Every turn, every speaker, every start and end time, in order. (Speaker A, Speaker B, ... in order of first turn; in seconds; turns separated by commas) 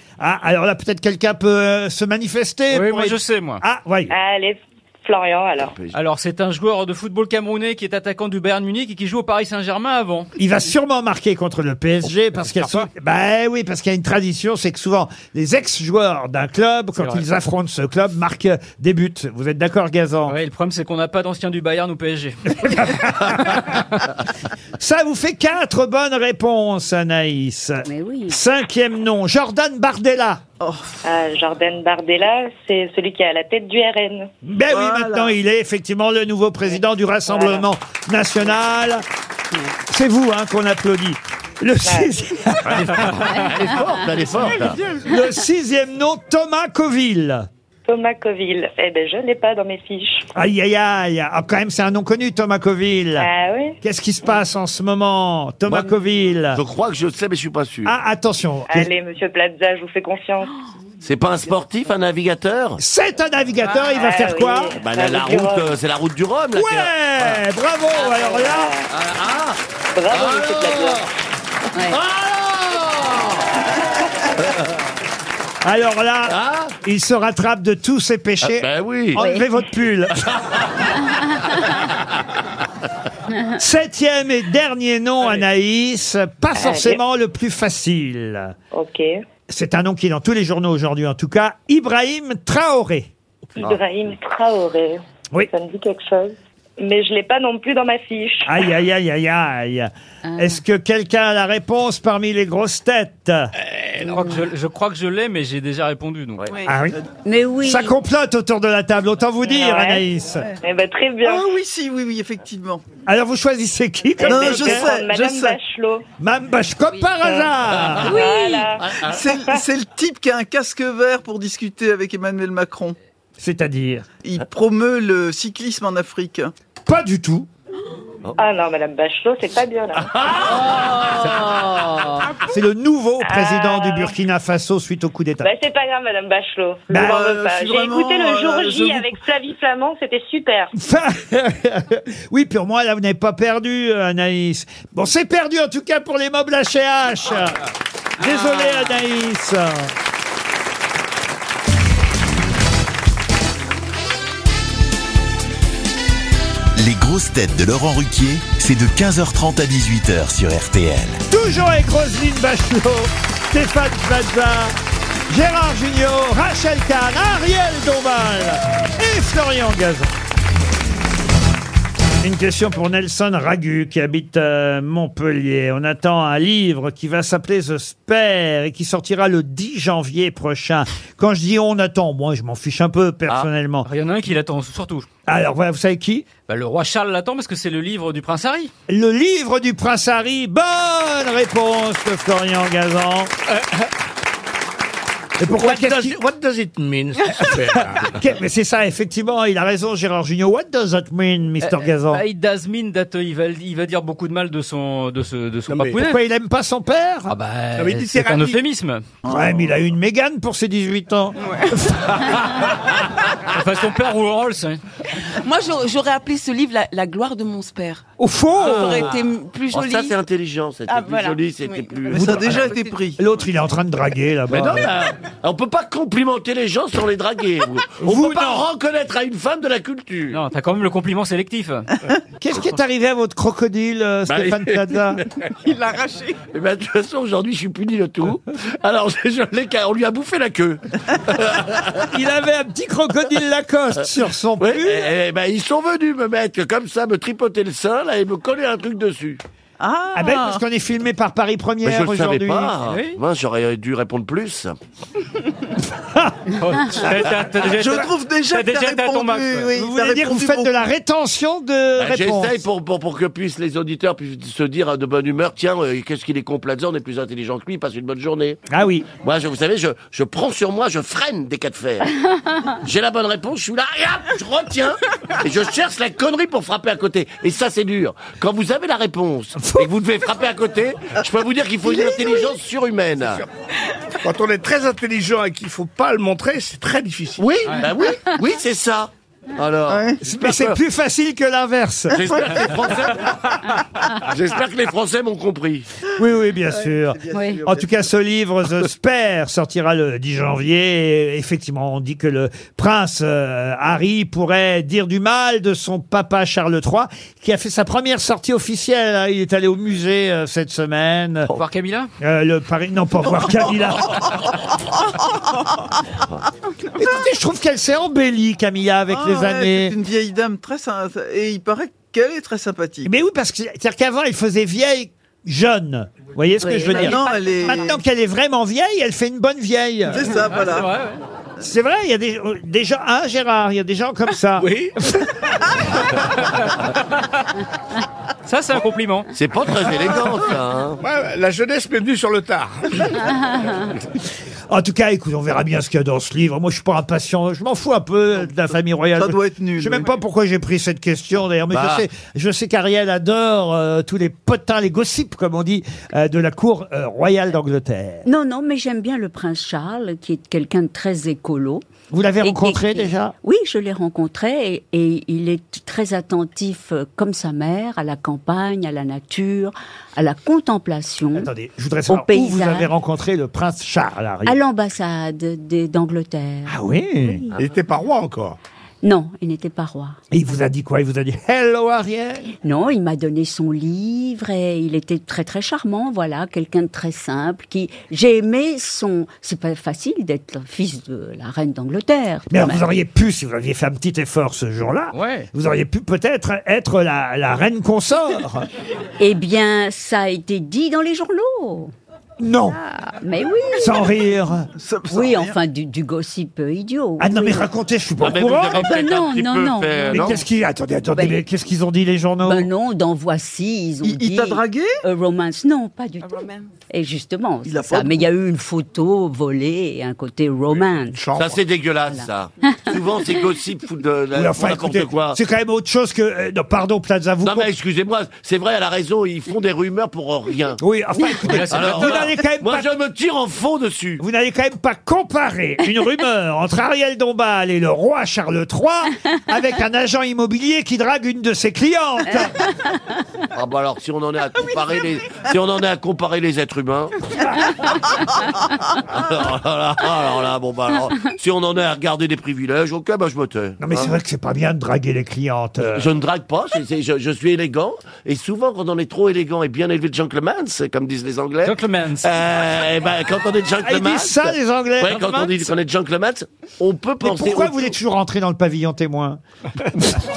Speaker A: 0.2-4.1, Speaker B: 2.7-3.6, Speaker C: 4.1-5.7, Speaker D: 5.6-6.0, Speaker B: 5.9-10.3, Speaker A: 10.4-20.4, Speaker B: 12.6-12.9, Speaker B: 17.0-17.2, Speaker B: 20.3-22.8, Speaker A: 22.6-23.8, Speaker A: 24.8-30.4, Speaker E: 27.9-28.4, Speaker F: 30.6-30.9, Speaker C: 31.0-34.3, Speaker A: 34.4-39.0, Speaker F: 34.7-35.3, Speaker C: 37.3-37.7, Speaker A: 39.9-43.3, Speaker C: 41.9-42.1, Speaker D: 42.7-44.8, Speaker E: 43.3-44.0, Speaker A: 45.0-47.5, Speaker C: 47.9-50.3, Speaker A: 50.4-53.3, Speaker C: 53.2-53.8, Speaker A: 53.8-56.6, Speaker D: 56.5-57.9, Speaker A: 57.9-58.9, Speaker C: 58.7-60.5, Speaker D: 61.0-62.8, Speaker A: 62.8-64.8, Speaker C: 63.9-65.7, Speaker D: 64.8-67.4, Speaker A: 66.5-68.8, Speaker C: 68.0-68.9, Speaker D: 68.9-71.1, Speaker C: 70.0-71.1, Speaker D: 71.8-73.5, Speaker D: 74.4-74.7, Speaker A: 75.6-80.2, Speaker D: 76.3-76.8, Speaker D: 78.4-79.2, Speaker E: 79.2-79.5, Speaker D: 80.1-80.8, Speaker A: 83.6-88.5, Speaker C: 86.6-87.0, Speaker C: 88.7-89.1, Speaker A: 89.5-93.1, Speaker C: 93.6-98.6, Speaker A: 98.5-103.5, Speaker E: 100.2-100.6, Speaker B: 104.0-106.5, Speaker G: 106.5-106.8, Speaker A: 106.7-107.0, Speaker E: 107.2-108.0, Speaker A: 107.6-110.5, Speaker C: 109.5-110.0, Speaker C: 110.6-111.5, Speaker F: 111.2-112.8, Speaker A: 113.1-114.9, Speaker C: 114.2-116.0, Speaker F: 114.2-115.6, Speaker A: 116.2-118.2, Speaker D: 117.8-118.0, Speaker E: 118.0-118.7, Speaker C: 118.1-119.6, Speaker D: 118.8-119.2, Speaker F: 119.0-123.0, Speaker A: 123.4-124.1, Speaker F: 124.2-126.5, Speaker A: 126.9-127.5, Speaker C: 128.4-130.2, Speaker D: 130.0-131.4, Speaker E: 131.4-132.2, Speaker A: 132.5-135.5, Speaker C: 133.2-134.1, Speaker C: 135.4-140.7, Speaker A: 136.9-137.3, Speaker F: 136.9-139.2, Speaker A: 140.8-147.6, Speaker A: 148.2-149.9, Speaker H: 156.8-161.2, Speaker A: 161.3-164.8, Speaker A: 165.3-170.1, Speaker A: 172.2-183.9, Speaker B: 183.8-185.1, Speaker A: 185.3-186.3, Speaker B: 186.4-188.7, Speaker A: 188.9-193.3, Speaker A: 195.4-196.2, Speaker I: 195.5-198.2, Speaker A: 197.7-202.2, Speaker B: 201.6-206.2, Speaker I: 205.7-206.0, Speaker A: 206.0-207.3, Speaker B: 207.3-209.0, Speaker I: 207.8-208.6, Speaker A: 209.2-212.1, Speaker G: 211.4-211.8, Speaker B: 213.5-214.8, Speaker G: 215.3-218.1, Speaker A: 218.2-219.1, Speaker G: 218.6-220.2, Speaker D: 219.7-222.7, Speaker G: 220.9-223.0, Speaker F: 222.1-223.2, Speaker A: 222.2-222.5, Speaker A: 223.2-224.9, Speaker D: 224.5-230.4, Speaker A: 228.0-228.7, Speaker B: 230.3-231.9, Speaker A: 232.4-235.2, Speaker D: 234.3-234.8, Speaker G: 235.6-236.4, Speaker D: 236.5-242.1, Speaker A: 242.1-245.1, Speaker D: 244.6-249.4, Speaker F: 249.8-250.6, Speaker A: 250.1-252.7, Speaker D: 251.8-254.8, Speaker B: 252.8-253.2, Speaker A: 256.0-256.4, Speaker B: 256.6-259.7, Speaker F: 257.6-260.7, Speaker A: 259.7-262.6, Speaker D: 262.0-268.6, Speaker A: 268.7-269.1, Speaker D: 269.2-272.1, Speaker D: 272.8-283.4, Speaker A: 279.6-279.9, Speaker I: 283.2-283.5, Speaker I: 284.2-287.5, Speaker D: 287.4-290.8, Speaker B: 287.7-287.9, Speaker F: 289.9-290.2, Speaker A: 290.2-292.7, Speaker D: 292.1-293.4, Speaker D: 294.2-295.9, Speaker A: 296.2-311.5, Speaker F: 296.7-297.9, Speaker E: 297.3-297.6, Speaker B: 311.5-312.1, Speaker A: 312.2-314.3, Speaker A: 317.0-319.9, Speaker F: 319.1-323.1, Speaker A: 323.1-330.3, Speaker E: 326.6-327.3, Speaker F: 326.9-328.0, Speaker F: 330.1-330.9, Speaker B: 330.4-331.2, Speaker A: 331.6-334.8, Speaker I: 334.6-335.1, Speaker B: 338.5-339.3, Speaker D: 339.3-341.0, Speaker I: 341.0-343.3, Speaker A: 344.7-358.3, Speaker F: 349.2-350.1, Speaker D: 351.7-352.1, Speaker E: 358.3-361.9, Speaker A: 362.1-363.3, Speaker E: 362.4-371.5, Speaker A: 371.4-374.6, Speaker E: 372.1-372.9, Speaker E: 374.4-376.8, Speaker A: 376.7-377.4, Speaker I: 377.5-378.6, Speaker E: 379.0-380.2, Speaker A: 380.3-382.5, Speaker E: 382.6-392.8, Speaker A: 392.5-398.7, Speaker B: 395.1-395.5, Speaker E: 399.2-401.9, Speaker A: 402.4-402.8, Speaker E: 402.8-404.1, Speaker A: 403.8-404.7, Speaker F: 404.8-405.6, Speaker E: 405.1-407.7, Speaker A: 407.2-408.9, Speaker D: 408.2-410.4, Speaker E: 408.8-410.4, Speaker A: 410.1-412.7, Speaker E: 411.1-411.4, Speaker E: 412.4-421.2, Speaker F: 414.0-415.0, Speaker G: 416.2-416.7, Speaker F: 417.6-418.3, Speaker I: 421.0-421.6, Speaker D: 421.3-425.4, Speaker E: 422.1-422.8, Speaker A: 424.4-427.7, Speaker D: 427.4-430.8, Speaker A: 430.8-432.9, Speaker B: 431.4-432.3, Speaker D: 431.7-434.2, Speaker A: 434.2-442.6, Speaker E: 442.3-442.9, Speaker D: 443.6-447.2, Speaker D: 449.1-454.1, Speaker A: 453.8-456.1, Speaker D: 455.9-467.9, Speaker B: 461.6-462.3, Speaker A: 463.8-465.5, Speaker A: 467.2-469.4